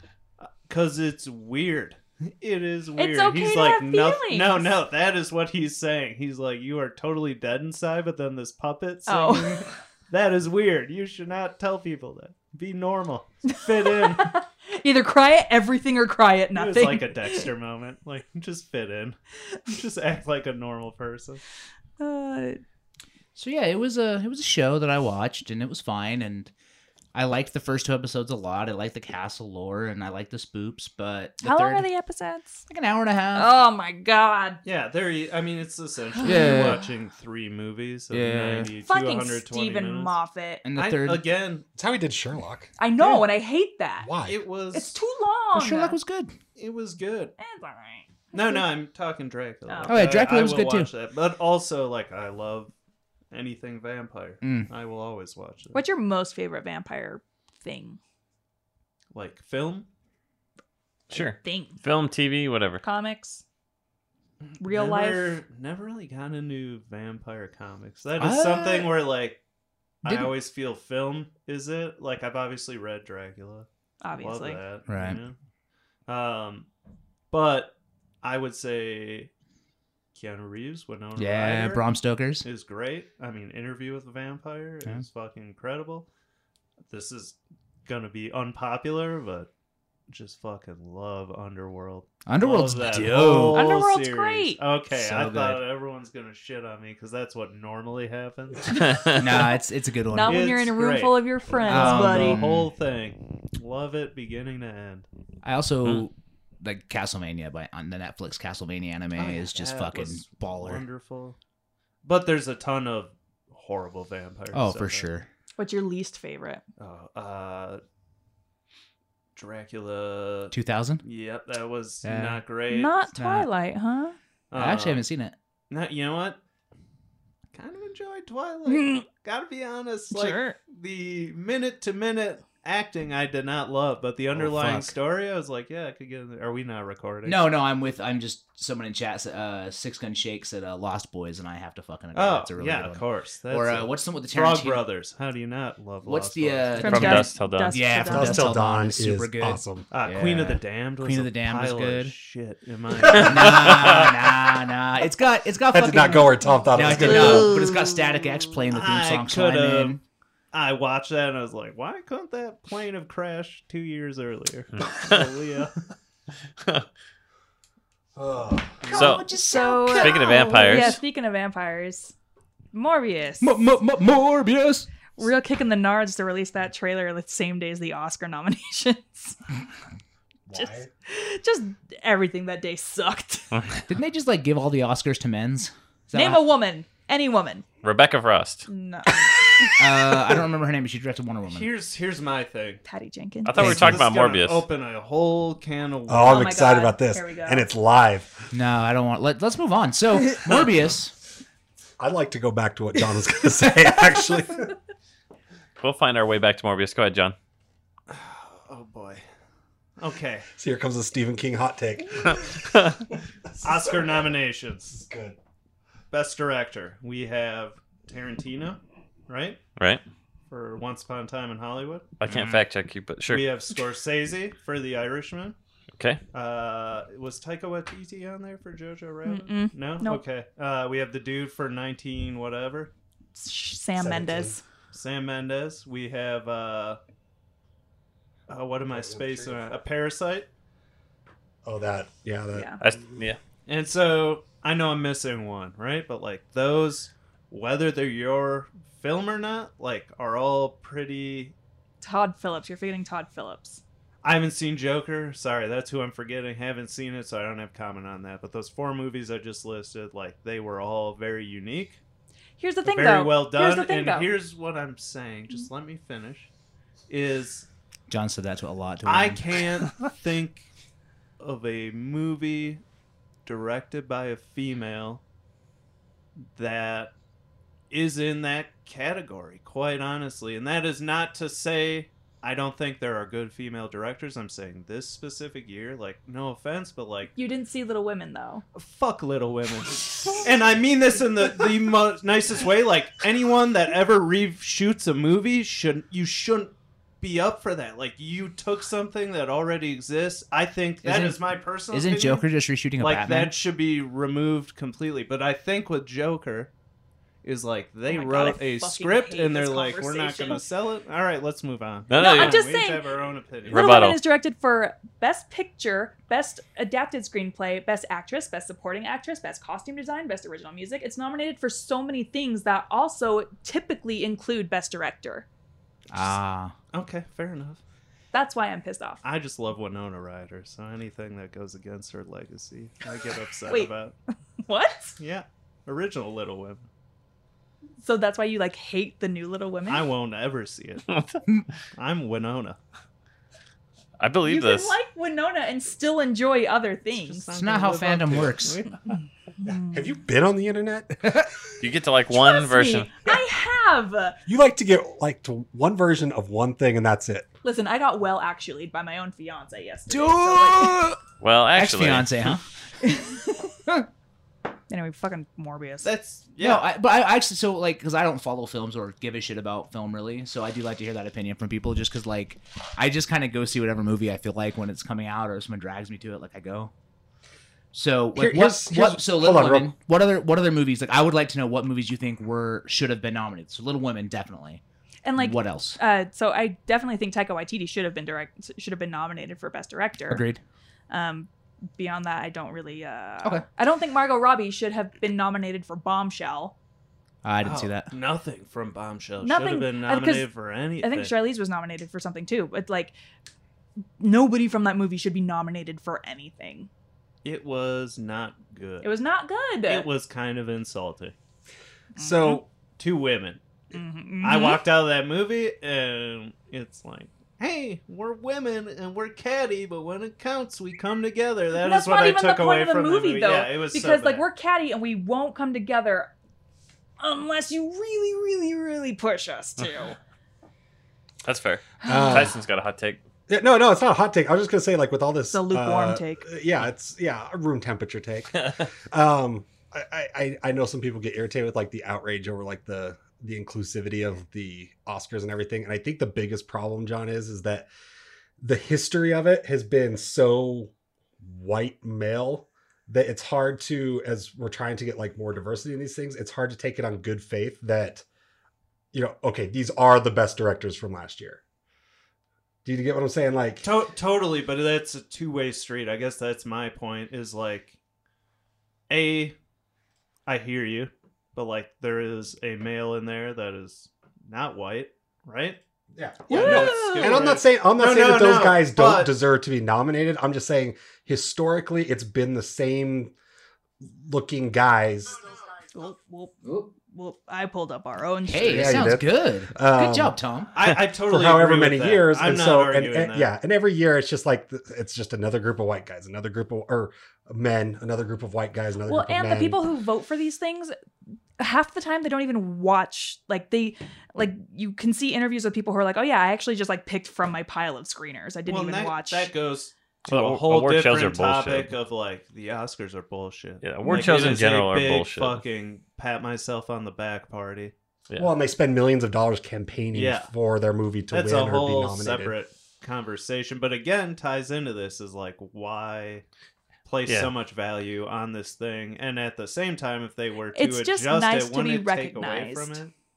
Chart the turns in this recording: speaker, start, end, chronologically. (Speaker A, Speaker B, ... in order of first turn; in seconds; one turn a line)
Speaker A: 0.4-14.4
Speaker B: 3.0-4.7
Speaker B: 9.1-9.7
Speaker B: 13.5-17.5
Speaker A: 16.5-21.4
Speaker B: 22.0-22.6
Speaker C: 23.3-26.5
Speaker C: 27.1-31.9
Speaker B: 31.4-32.6
Speaker C: 32.7-33.5
Speaker B: 33.3-34.6
Speaker A: 34.6-40.2
Speaker B: 36.2-36.8
Speaker C: 36.2-36.8
Speaker C: 38.1-38.7
Speaker B: 38.8-40.6
Speaker C: 40.6-41.2
Speaker A: 40.7-41.6
Speaker D: 41.8-42.7
Speaker B: 42.8-44.1
Speaker D: 44.0-44.4
Speaker A: 44.2-45.0
Speaker B: 44.7-46.0
Speaker C: 45.5-46.4
Speaker A: 46.5-47.3
Speaker B: 47.4-48.6
Speaker A: 48.3-52.7
Speaker B: 49.7-50.0
Speaker C: 49.9-50.9
Speaker A: 53.3-55.8
Speaker C: 54.4-54.7
Speaker B: 55.7-58.0
Speaker A: 59.1-59.9
Speaker E: 61.1-62.8
Speaker B: 61.4-61.8
Speaker B: 62.8-63.4
Speaker B: 64.6-65.4
Speaker A: 64.6-69.4
Speaker C: 68.2-68.9
Speaker A: 70.0-73.7
Speaker C: 70.0-70.3
Speaker B: 74.0-74.6
Speaker A: 74.2-75.3
Speaker C: 74.9-75.2
Speaker A: 76.1-76.7
Speaker A: 77.3-79.3
Speaker A: 80.1-81.8
Speaker C: 81.2-82.5
Speaker A: 82.4-86.1
Speaker A: 86.9-89.5
Speaker A: 90.1-99.1
Speaker C: 92.2-93.7
Speaker B: 93.5-94.6
Speaker C: 94.9-95.6
Speaker E: 98.7-99.3
Speaker C: 99.2-100.5
Speaker B: 100.1-102.4
Speaker A: 100.2-105.1
Speaker C: 101.6-102.7
Speaker C: 105.4-110.8
Speaker A: 109.2-111.4
Speaker A: 112.0-115.1
Speaker C: 114.5-115.3
Speaker B: 115.6-116.6
Speaker A: 116.8-117.8
Speaker A: 119.3-123.0
Speaker C: 120.5-121.0
Speaker C: 122.0-122.4
Speaker B: 122.7-124.1
Speaker C: 123.1-123.5
Speaker A: 124.5-125.0
Speaker C: 124.5-125.3
Speaker A: 125.7-126.4
Speaker A: 127.5-137.5
Speaker B: 128.7-129.0
Speaker B: 130.1-130.6
Speaker C: 134.3-134.9
Speaker C: 137.2-144.8
Speaker A: 142.1-147.2
Speaker C: 146.0-152.1
Speaker B: 146.8-148.6
Speaker E: 146.8-147.8
Speaker D: 148.0-149.9
Speaker A: 149.9-154.3
Speaker C: 153.0-160.0
Speaker D: 155.7-157.6
Speaker A: 156.9-158.0
Speaker A: 158.7-160.0
Speaker A: 160.5-165.8
Speaker E: 164.9-165.2
Speaker D: 168.2-168.9
Speaker C: 168.9-171.0
Speaker E: 168.9-169.3
Speaker B: 169.2-172.1
Speaker E: 169.9-171.0
Speaker B: 172.7-173.5
Speaker C: 173.4-174.9
Speaker B: 175.2-179.4
Speaker D: 180.5-180.9
Speaker B: 180.5-183.5
Speaker C: 183.9-186.4
Speaker B: 186.1-187.6
Speaker E: 187.8-188.7
Speaker B: 188.7-189.3
Speaker C: 189.8-191.7
Speaker A: 191.5-192.8
Speaker B: 192.8-194.0
Speaker E: 193.4-194.6
Speaker A: 193.6-196.6
Speaker C: 193.6-194.0
Speaker D: 196.1-198.5
Speaker B: 196.2-197.7
Speaker C: 198.5-201.1
Speaker D: 202.0-204.7
Speaker E: 205.8-207.3
Speaker A: 208.1-209.2
Speaker A: 210.0-210.4
Speaker D: 210.6-212.7
Speaker E: 212.6-213.0
Speaker D: 213.6-214.3
Speaker A: 213.6-215.0
Speaker D: 214.9-215.4
Speaker A: 216.1-219.6
Speaker E: 219.8-220.0
Speaker A: 220.5-222.1
Speaker E: 222.2-223.5
Speaker C: 222.3-222.6
Speaker A: 223.3-225.6
Speaker A: 226.3-232.9
Speaker B: 229.2-230.2
Speaker B: 233.3-234.6
Speaker D: 234.0-234.6
Speaker A: 234.9-237.0
Speaker A: 238.5-240.5
Speaker D: 238.9-239.8
Speaker D: 241.6-243.1
Speaker B: 242.5-242.8
Speaker E: 242.8-243.4
Speaker A: 243.7-251.5
Speaker B: 252.0-253.8
Speaker A: 254.2-262.0
Speaker B: 262.6-264.3
Speaker A: 262.8-266.5
Speaker A: 267.1-267.7
Speaker C: 268.1-269.6
Speaker A: 269.0-270.6
Speaker A: 271.4-272.8
Speaker A: 273.4-275.2
Speaker A: 276.6-277.1
Speaker A: 277.9-287.3
Speaker B: 287.4-288.6
Speaker A: 288.7-302.5
Speaker C: 301.0-301.4
Speaker C: 301.9-303.5
Speaker A: 303.0-306.7
Speaker A: 307.4-313.9
Speaker B: 308.1-310.6
Speaker E: 312.1-312.7
Speaker B: 312.1-313.0
Speaker E: 313.7-314.2
Speaker B: 313.7-325.4
Speaker C: 326.1-326.7
Speaker A: 326.9-327.8
Speaker B: 328.3-329.2
Speaker A: 329.2-334.1
Speaker B: 334.6-335.2
Speaker A: 335.2-336.9
Speaker B: 338.0-340.1
Speaker A: 339.9-341.1
Speaker E: 341.1-341.4
Speaker A: 341.9-342.8
Speaker E: 344.2-344.9
Speaker B: 344.4-347.5
Speaker A: 347.1-349.0
Speaker C: 347.5-348.8
Speaker B: 349.6-350.1
Speaker D: 349.6-351.5
Speaker E: 351.8-353.1
Speaker B: 352.3-354.4
Speaker D: 354.4-357.5
Speaker B: 357.6-361.0
Speaker C: 360.1-361.2
Speaker E: 361.4-362.3
Speaker C: 361.7-362.6
Speaker B: 363.0-363.7
Speaker B: 364.9-366.1
Speaker A: 366.0-366.9
Speaker C: 366.6-376.9
Speaker C: 377.9-384.8
Speaker D: 378.3-379.9
Speaker B: 385.2-390.4
Speaker C: 385.4-386.0
Speaker C: 390.3-390.6
Speaker B: 391.1-396.7
Speaker C: 397.4-398.1
Speaker A: 397.6-401.3
Speaker B: 399.4-403.1
Speaker B: 404.2-406.9
Speaker A: 407.4-409.1
Speaker B: 409.0-410.1
Speaker A: 409.9-411.3
Speaker B: 412.1-412.6
Speaker D: 412.2-412.6
Speaker A: 413.0-413.6
Speaker B: 413.9-414.8
Speaker A: 414.4-424.4
Speaker B: 421.7-426.3
Speaker B: 427.2-430.2
Speaker E: 431.4-433.2
Speaker B: 432.0-432.5
Speaker D: 432.1-432.6
Speaker D: 433.5-447.9
Speaker B: 435.5-436.4
Speaker E: 438.6-438.8
Speaker D: 448.6-458.2
Speaker D: 459.1-461.6
Speaker D: 462.8-463.9
Speaker A: 463.8-468.0
Speaker A: 469.1-469.5
Speaker A: 470.5-475.8
Speaker D: 476.1-483.3
Speaker A: 476.5-479.3
Speaker B: 476.5-477.4
Speaker D: 484.0-485.4
Speaker B: 485.9-489.1
Speaker C: 486.6-486.9
Speaker C: 488.5-490.7
Speaker D: 488.6-490.4
Speaker A: 490.7-493.5
Speaker D: 491.2-499.8
Speaker B: 499.1-500.9
Speaker B: 501.6-509.5
Speaker A: 508.7-517.9
Speaker E: 510.2-511.9
Speaker E: 513.8-515.6
Speaker B: 514.0-514.4
Speaker D: 518.4-522.5
Speaker A: 520.1-520.5
Speaker A: 521.3-526.4
Speaker A: 527.0-533.1
Speaker E: 527.2-527.5
Speaker B: 530.7-533.0